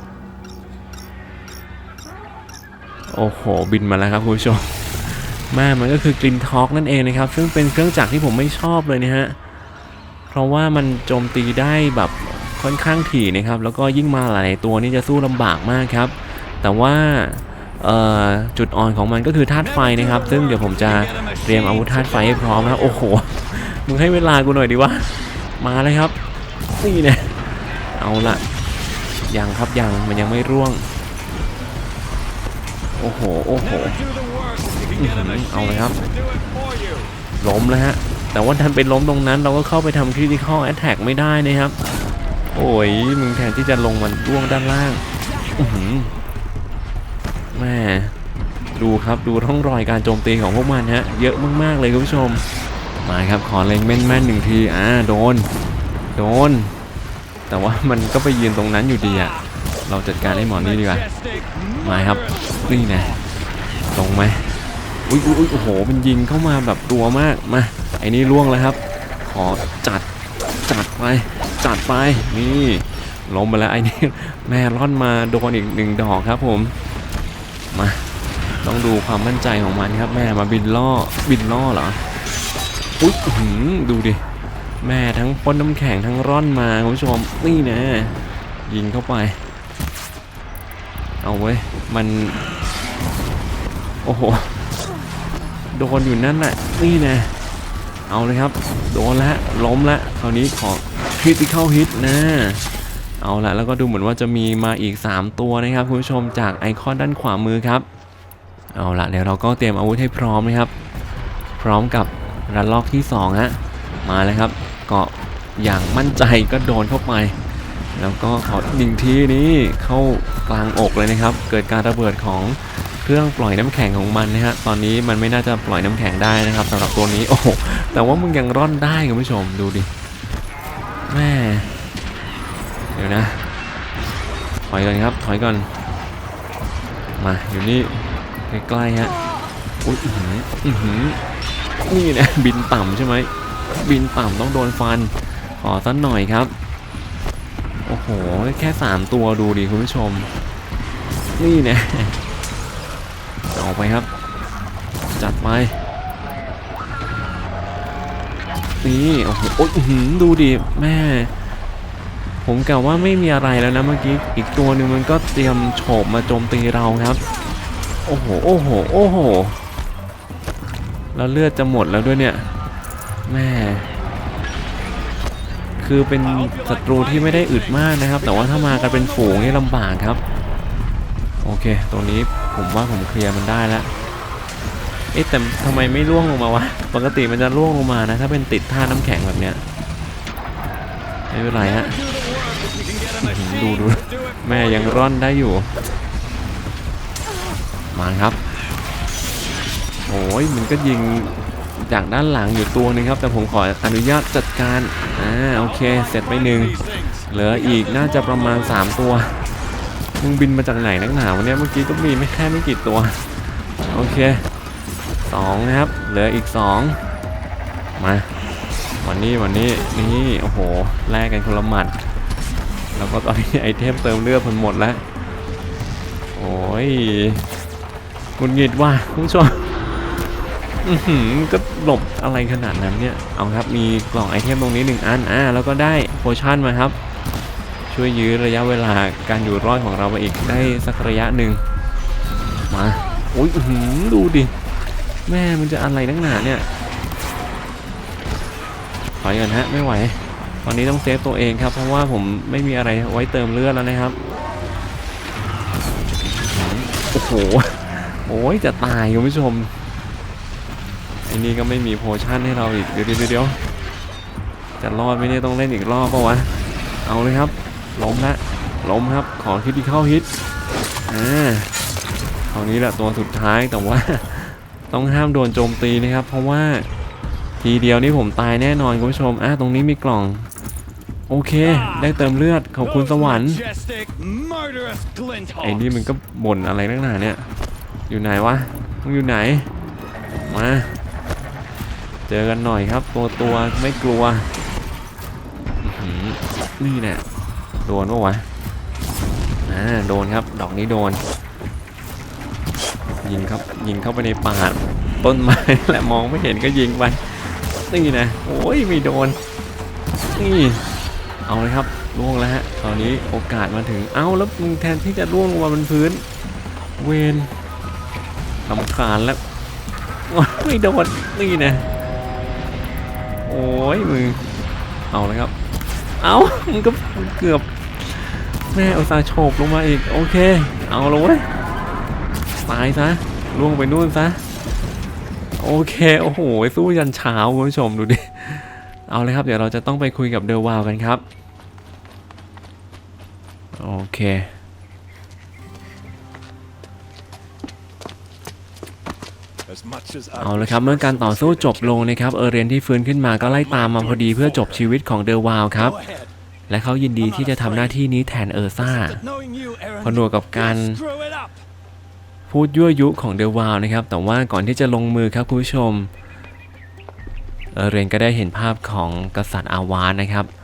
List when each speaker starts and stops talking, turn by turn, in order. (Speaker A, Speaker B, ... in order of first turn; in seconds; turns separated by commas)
Speaker A: 3.1-9.4, Speaker A: 10.3-26.2, Speaker B: 20.2-22.0, Speaker A: 26.8-28.5, Speaker A: 29.3-30.9, Speaker A: 32.9-34.0, Speaker B: 33.8-35.1, Speaker A: 34.9-36.0, Speaker B: 35.8-37.0, Speaker A: 37.4-41.8, Speaker A: 42.5-45.0, Speaker A: 45.5-46.1, Speaker A: 47.5-48.1, Speaker A: 48.7-52.5, Speaker A: 53.0-55.5, Speaker A: 56.1-56.8, Speaker A: 57.5-61.1, Speaker B: 61.1-61.6, Speaker A: 61.8-63.2, Speaker A: 63.9-70.1, Speaker A: 70.7-76.7, Speaker A: 77.7-78.0, Speaker A: 78.6-82.0, Speaker A: 83.0-84.2, Speaker A: 84.8-89.4, Speaker A: 91.2-92.4, Speaker A: 94.0-94.7, Speaker A: 95.7-97.3, Speaker A: 98.1-102.7, Speaker A: 103.2-107.8, Speaker A: 108.7-110.7, Speaker A: 111.6-117.4, Speaker A: 117.9-129.9, Speaker A: 131.1-131.7, Speaker A: 132.9-133.5, Speaker A: 134.7-135.7, Speaker A: 137.2-139.1, Speaker A: 139.8-141.2, Speaker A: 141.8-146.5, Speaker A: 147.8-150.3, Speaker A: 151.4-152.2, Speaker A: 153.5-154.1, Speaker A: 155.2-155.8, Speaker A: 158.8-161.3, Speaker A: 162.4-167.2, Speaker A: 168.0-169.6, Speaker A: 171.1-172.5, Speaker A: 173.2-173.9, Speaker A: 175.8-180.2, Speaker A: 181.4-183.9, Speaker A: 185.1-189.6, Speaker A: 191.3-192.0, Speaker B: 192.1-193.1, Speaker A: 193.2-195.7, Speaker A: 197.9-198.4, Speaker A: 200.1-209.5, Speaker A: 210.2-214.5, Speaker A: 215.2-217.0, Speaker A: 218.0-218.3, Speaker A: 219.0-221.9, Speaker A: 222.9-225.0, Speaker A: 226.3-227.4, Speaker A: 228.4-230.3, Speaker A: 230.8-236.9, Speaker A: 237.9-241.6, Speaker A: 242.7-244.5, Speaker A: 245.2-246.7, Speaker A: 249.2-254.2, Speaker A: 256.3-259.7, Speaker A: 261.2-263.6, Speaker A: 264.8-266.5, Speaker A: 267.0-270.3, Speaker A: 271.1-271.7, Speaker A: 272.5-276.9, Speaker A: 277.6-280.5, Speaker A: 281.3-283.6, Speaker B: 283.4-285.7, Speaker A: 285.6-287.5, Speaker A: 288.1-289.7, Speaker A: 290.5-291.0, Speaker A: 292.3-294.5, Speaker A: 295.8-297.2, Speaker A: 297.8-298.4, Speaker A: 299.6-301.2, Speaker A: 303.2-309.4, Speaker A: 310.3-310.9, Speaker A: 311.4-316.2, Speaker A: 317.0-317.5, Speaker A: 318.6-319.4, Speaker A: 320.3-321.9, Speaker A: 323.4-324.4, Speaker A: 325.1-325.5, Speaker A: 326.2-327.7, Speaker A: 328.7-331.5, Speaker A: 332.5-334.4, Speaker A: 335.6-341.2, Speaker A: 343.8-344.5, Speaker C: 349.7-352.2, Speaker A: 350.4-356.0, Speaker C: 353.4-354.9, Speaker B: 355.8-356.2, Speaker A: 356.7-359.2, Speaker B: 359.0-360.2, Speaker A: 360.0-361.0, Speaker B: 360.8-361.5, Speaker A: 362.5-366.1, Speaker A: 367.7-370.5